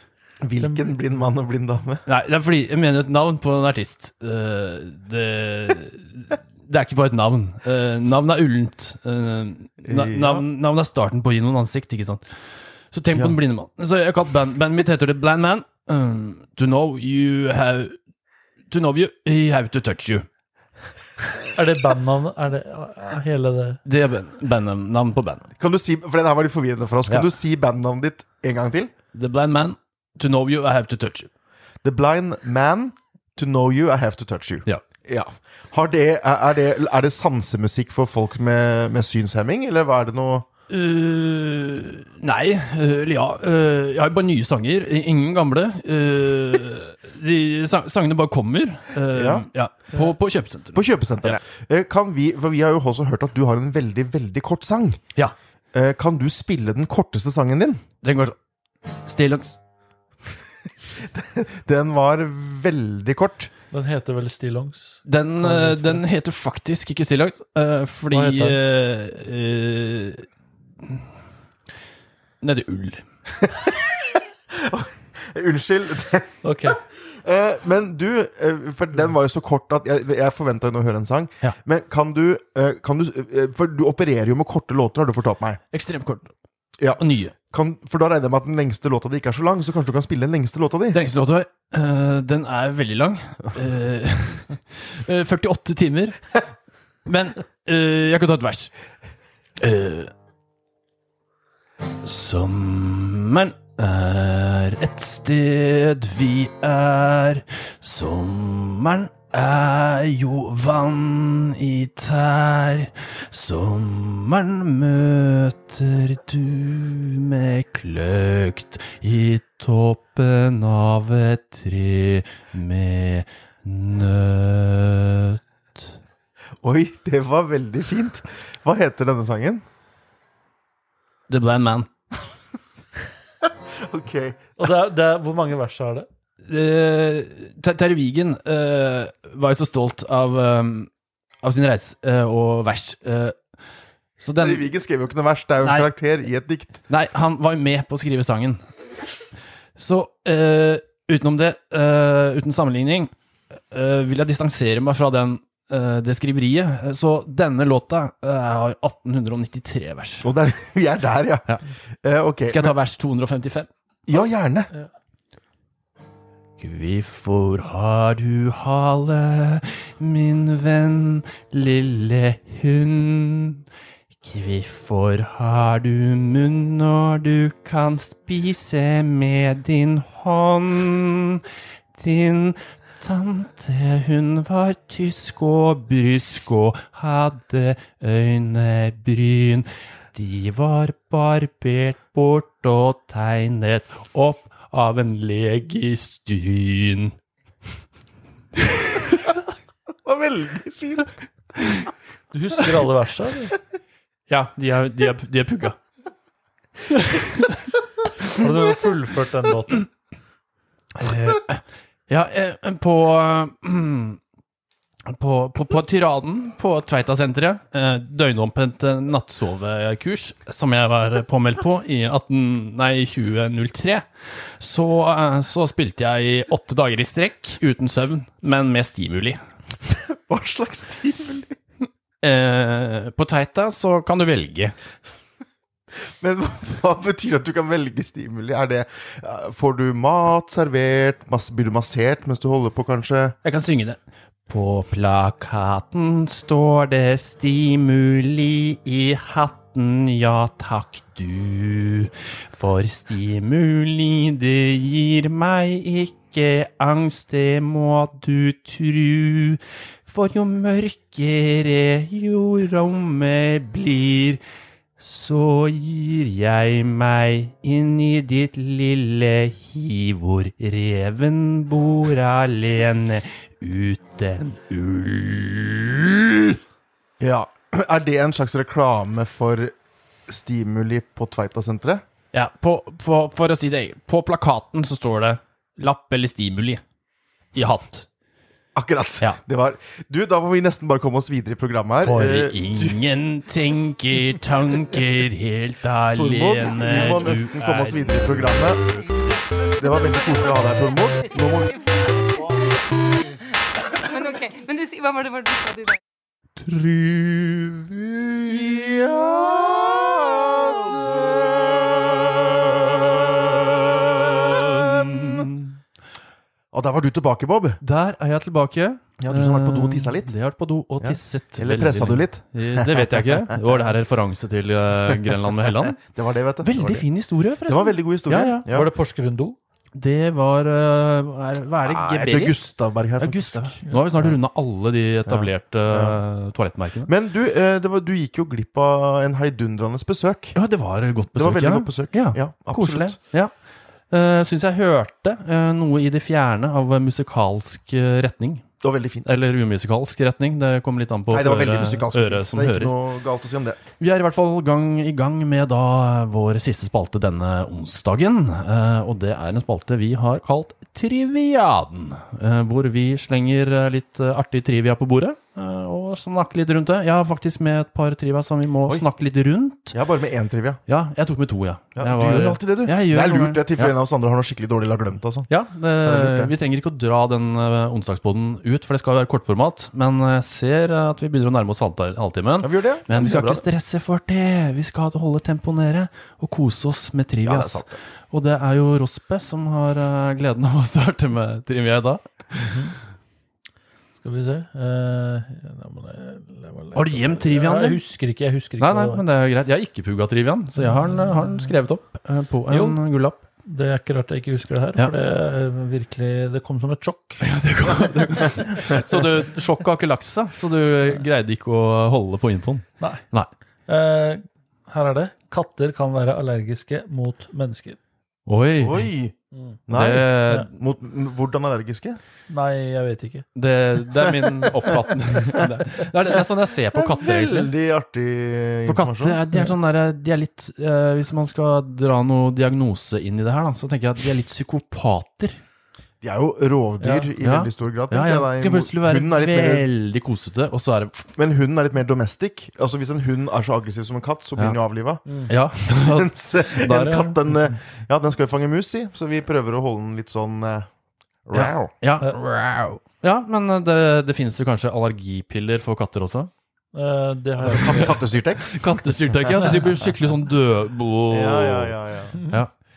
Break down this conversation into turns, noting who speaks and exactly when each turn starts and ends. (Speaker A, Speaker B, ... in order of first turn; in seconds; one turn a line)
Speaker A: 0.4-2.0
Speaker B: 0.6-1.0
Speaker C: 2.0-12.2
Speaker A: 9.8-10.4
Speaker C: 12.9-17.9
Speaker C: 18.7-20.2
Speaker B: 21.5-23.8
Speaker C: 23.8-25.5
Speaker A: 25.6-28.9
Speaker C: 29.1-31.3
Speaker A: 31.8-40.5
Speaker C: 40.7-51.4
Speaker A: 49.1-49.5
Speaker A: 50.7-55.0
Speaker A: 55.7-57.8
Speaker C: 58.0-58.4
Speaker C: 59.0-59.6
Speaker A: 61.0-63.5
Speaker B: 63.7-66.0
Speaker C: 65.0-70.3
Speaker B: 68.1-68.6
Speaker C: 72.4-73.0
Speaker A: 74.5-85.6
Speaker B: 76.4-76.8
Speaker C: 85.7-86.3
Speaker A: 86.8-91.0
Speaker C: 87.0-87.3
Speaker C: 90.9-96.4
Speaker C: 97.0-98.7
Speaker C: 99.6-100.1
Speaker C: 102.0-125.9
Speaker A: 126.6-129.6
Speaker C: 131.3-131.9
Speaker A: 133.8-134.4
Speaker B: 134.6-136.1
Speaker C: 136.5-140.9
Speaker C: 141.4-143.4
Speaker C: 144.2-144.7
Speaker A: 144.4-146.8
Speaker C: 145.6-145.9
Speaker C: 146.9-148.6
Speaker C: 149.8-153.1
Speaker C: 153.7-160.2
Speaker A: 160.2-161.5
Speaker A: 162.0-162.7
Speaker C: 162.4-163.7
Speaker A: 164.1-164.7
Speaker C: 166.6-173.6
Speaker C: 174.2-181.4
Speaker C: 181.9-197.1
Speaker C: 198.7-199.3
Speaker A: 200.0-201.1
Speaker B: 202.3-203.6
Speaker C: 204.3-205.8
Speaker C: 206.9-207.6
Speaker B: 208.3-209.8
Speaker C: 210.9-214.2
Speaker C: 215.1-224.1
Speaker C: 224.6-229.4
Speaker A: 229.9-231.6
Speaker C: 232.2-234.7
Speaker A: 236.2-243.4
Speaker C: 243.4-264.4
Speaker C: 265.0-276.6
Speaker A: 277.2-279.7
Speaker A: 280.3-282.0
Speaker C: 282.3-286.8
Speaker C: 287.5-288.1
Speaker A: 288.7-293.0
Speaker C: 292.0-298.8
Speaker A: 296.1-298.8
Speaker D: 296.9-297.2
Speaker D: 299.1-306.0
Speaker A: 299.8-301.7
Speaker C: 306.6-307.9
Speaker A: 308.1-315.5
Speaker C: 314.4-315.7
Speaker A: 316.7-317.8
Speaker C: 317.8-326.0
Speaker A: 319.2-320.3
Speaker A: 321.0-323.5
Speaker A: 325.6-327.0
Speaker C: 326.6-328.6
Speaker A: 327.7-328.9
Speaker B: 328.7-329.6
Speaker C: 329.9-337.1
Speaker A: 331.8-334.4
Speaker A: 335.2-336.2
Speaker A: 337.1-340.6
Speaker C: 340.5-343.5
Speaker A: 341.4-343.2
Speaker C: 344.1-352.9
Speaker A: 348.8-349.3
Speaker A: 351.3-353.8
Speaker C: 354.0-369.9
Speaker A: 369.9-370.8
Speaker C: 370.9-373.9
Speaker A: 371.9-376.5
Speaker C: 375.5-392.9
Speaker A: 382.6-383.6
Speaker A: 387.4-388.0
Speaker B: 392.6-392.9
Speaker B: 394.2-399.2
Speaker C: 396.9-398.0
Speaker C: 398.8-403.4
Speaker B: 400.8-401.7
Speaker B: 402.7-403.0
Speaker B: 403.6-407.5
Speaker C: 407.4-413.5
Speaker B: 413.9-418.0
Speaker C: 418.5-419.1
Speaker A: 418.8-419.3
Speaker B: 419.5-419.8
Speaker A: 419.9-422.2
Speaker C: 419.9-420.7
Speaker B: 422.5-423.5
Speaker C: 423.6-427.7
Speaker A: 426.9-429.4
Speaker C: 428.9-435.6
Speaker A: 436.2-439.9
Speaker B: 437.0-437.3
Speaker C: 437.4-441.2
Speaker A: 441.3-450.9
Speaker C: 445.5-447.4
Speaker A: 451.4-451.9
Speaker C: 451.5-456.5
Speaker B: 456.9-458.2
Speaker A: 457.6-458.6
Speaker C: 457.9-461.9
Speaker A: 461.3-462.4